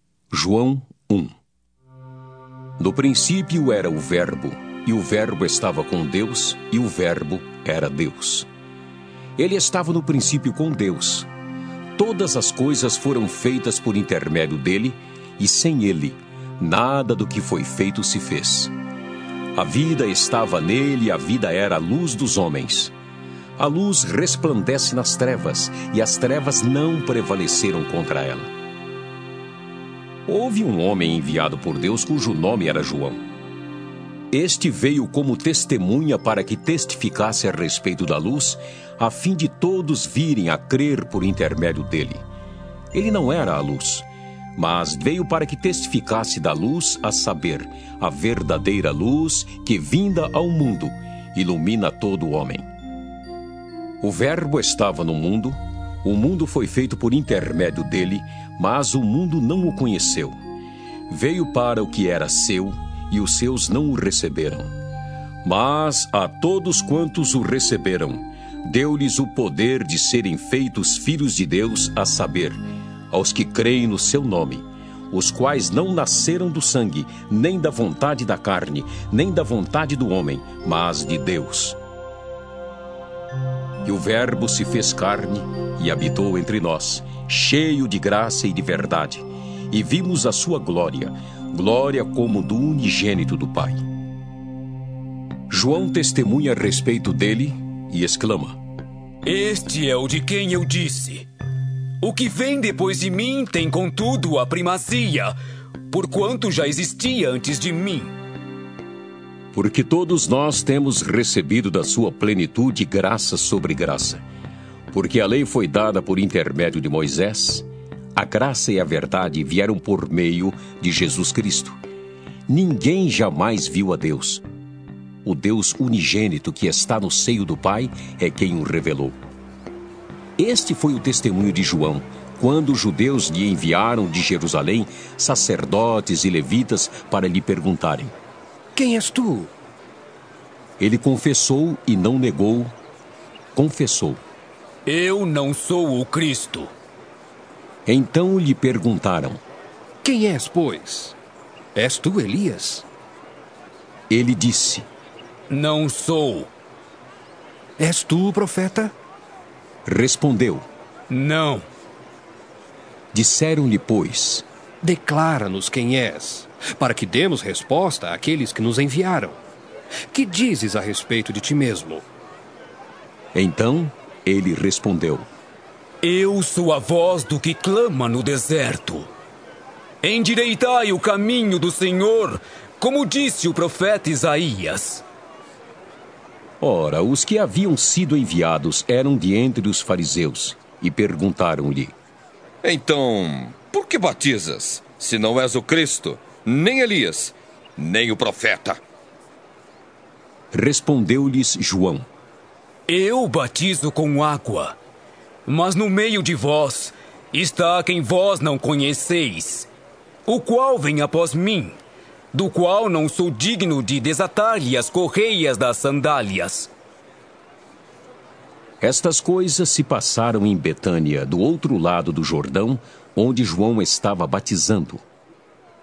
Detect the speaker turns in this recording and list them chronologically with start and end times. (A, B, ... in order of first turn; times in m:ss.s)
0:00.3-0:01.3 A
0:02.8-0:08.5 A
0:09.4-0:11.3 A
0:12.0-0:18.7 A
0:19.6-0:22.9 A
0:23.6-0:28.5 A
0:30.3-0:33.2 A
0:34.3-0:42.2 A
0:42.9-0:52.7 A
0:54.0-1:00.4 A
1:01.1-1:04.7 A
1:05.4-1:12.6 A
1:13.1-1:21.8 A
1:23.8-1:33.8 A
1:35.5-1:38.6 A
1:39.2-1:41.3 B
1:42.0-1:45.3 B
1:45.9-1:48.1 B
1:49.5-1:54.2 A
1:54.9-2:01.8 A
2:02.5-2:04.4 A
2:05.2-2:09.2 A
2:10.4-2:18.1 A
2:18.8-2:19.5 C
2:20.8-2:22.7 A
2:23.6-2:24.2 A
2:24.9-2:26.7 B
2:27.9-2:29.4 A
2:30.0-2:31.2 C
2:31.8-2:32.8 C
2:34.1-2:34.9 A
2:35.5-2:36.5 B
2:37.8-2:38.9 C
2:39.9-2:40.6 A
2:41.1-2:41.7 B
2:43.1-2:44.4 A
2:44.8-2:49.4 C
2:50.1-2:52.0 C
2:53.3-2:55.3 A
2:56.0-2:59.1 B
3:00.0-3:05.0 B
3:06.6-3:12.0 A
3:12.6-3:18.8 D
3:20.5-3:22.1 A
3:22.9-3:24.8 B
3:25.5-3:29.7 B
3:30.3-3:31.8 B
3:32.3-3:36.7 B
3:38.8-3:45.0 A